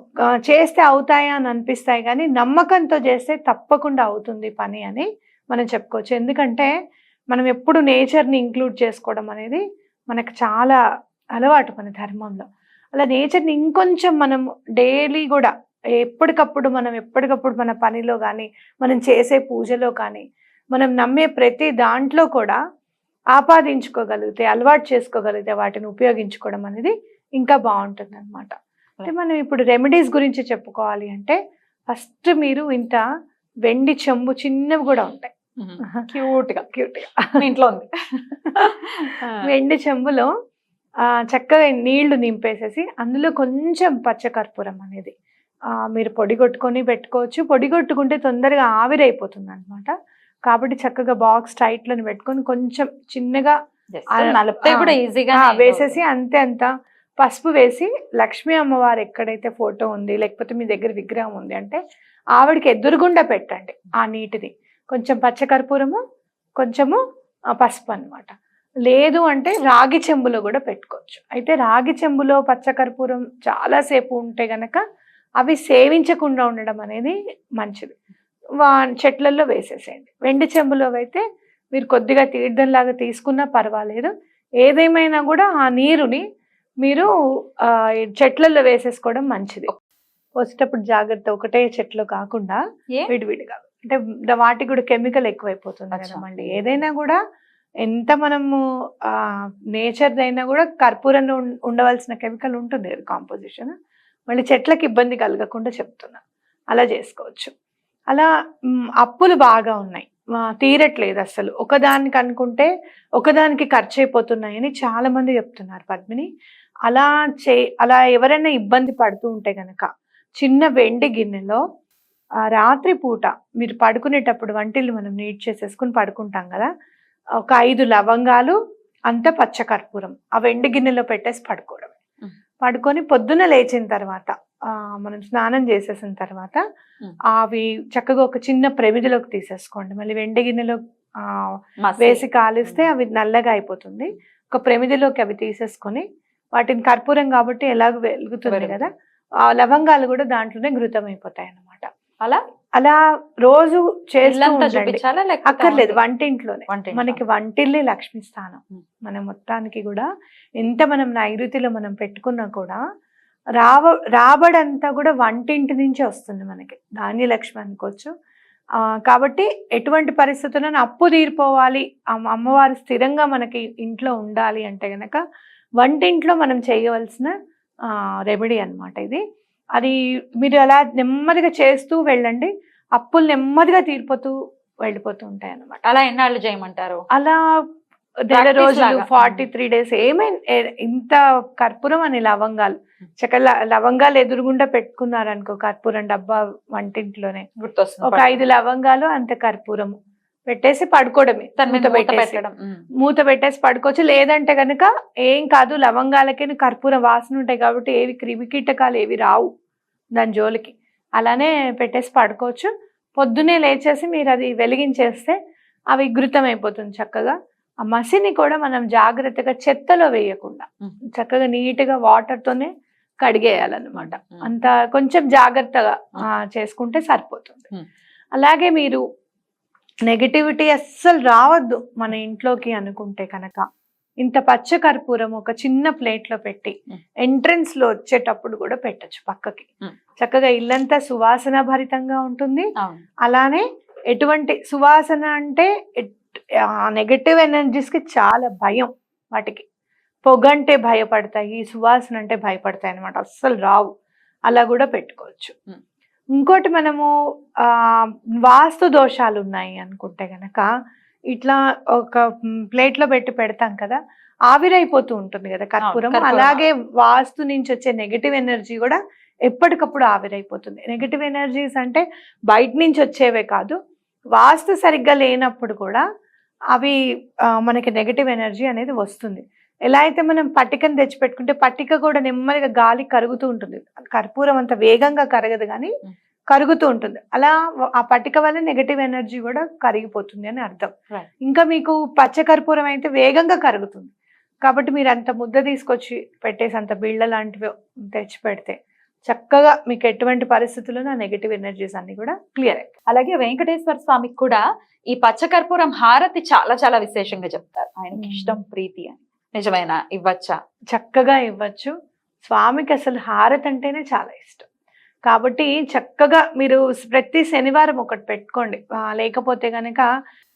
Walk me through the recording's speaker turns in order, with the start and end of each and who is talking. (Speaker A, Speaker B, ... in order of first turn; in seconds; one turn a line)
Speaker A: 0.5-6.7
Speaker A: 7.3-10.8
Speaker A: 11.4-15.5
Speaker A: 16.0-20.2
Speaker A: 20.7-22.6
Speaker A: 23.4-28.5
Speaker A: 29.1-31.4
Speaker A: 31.9-33.0
Speaker A: 33.7-35.3
Speaker B: 35.6-36.7
Speaker A: 36.7-37.4
Speaker B: 37.4-37.9
Speaker B: 38.6-39.4
Speaker A: 39.4-40.3
Speaker A: 41.3-45.1
Speaker A: 45.9-49.9
Speaker A: 50.5-53.5
Speaker B: 53.9-56.0
Speaker A: 54.1-56.7
Speaker A: 57.2-61.8
Speaker A: 62.4-66.0
Speaker A: 66.6-67.0
Speaker A: 67.6-68.3
Speaker A: 68.9-74.8
Speaker A: 75.4-78.0
Speaker A: 78.6-81.2
Speaker A: 81.7-84.1
Speaker A: 84.6-86.2
Speaker A: 86.8-87.1
Speaker A: 88.2-89.7
Speaker A: 90.4-97.2
Speaker B: 95.9-96.6
Speaker A: 97.8-99.1
Speaker A: 99.8-103.7
Speaker A: 104.3-106.2
Speaker A: 106.7-107.5
Speaker A: 109.0-116.3
Speaker A: 116.9-119.9
Speaker A: 120.4-121.6
Speaker A: 122.5-126.7
Speaker A: 127.5-128.6
Speaker A: 129.1-131.9
Speaker A: 132.6-134.3
Speaker A: 135.0-136.6
Speaker A: 137.3-146.0
Speaker B: 141.8-142.9
Speaker A: 146.6-148.9
Speaker B: 148.5-148.9
Speaker A: 149.4-151.9
Speaker A: 152.8-160.1
Speaker B: 154.2-156.0
Speaker B: 156.7-157.2
Speaker A: 160.6-162.8
Speaker A: 163.6-168.1
Speaker A: 169.1-175.2
Speaker A: 175.8-177.3
Speaker A: 178.3-179.2
Speaker A: 179.8-184.3
Speaker A: 184.8-185.8
Speaker B: 185.8-187.0
Speaker A: 187.1-187.4
Speaker A: 188.3-197.4
Speaker B: 188.3-189.5
Speaker B: 197.6-198.5
Speaker A: 198.0-199.9
Speaker A: 200.5-202.4
Speaker B: 201.6-202.8
Speaker A: 203.0-209.5
Speaker A: 210.2-215.4
Speaker A: 215.9-217.3
Speaker A: 217.9-222.7
Speaker A: 223.2-227.7
Speaker B: 224.0-224.5
Speaker A: 228.4-229.0
Speaker A: 230.1-233.6
Speaker A: 234.2-239.7
Speaker A: 240.2-242.7
Speaker A: 243.3-246.2
Speaker A: 246.9-249.6
Speaker A: 250.2-253.9
Speaker A: 254.5-255.5
Speaker A: 256.4-257.1
Speaker A: 257.7-260.7
Speaker A: 261.3-264.0
Speaker A: 264.5-273.8
Speaker B: 265.8-266.7
Speaker A: 274.3-276.0
Speaker A: 277.6-285.9
Speaker A: 286.5-290.9
Speaker A: 291.4-294.1
Speaker A: 294.6-298.8
Speaker A: 299.3-302.9
Speaker B: 303.1-304.6
Speaker B: 305.1-310.6
Speaker A: 308.2-308.6
Speaker A: 310.9-311.9
Speaker A: 312.4-314.7
Speaker A: 315.3-320.1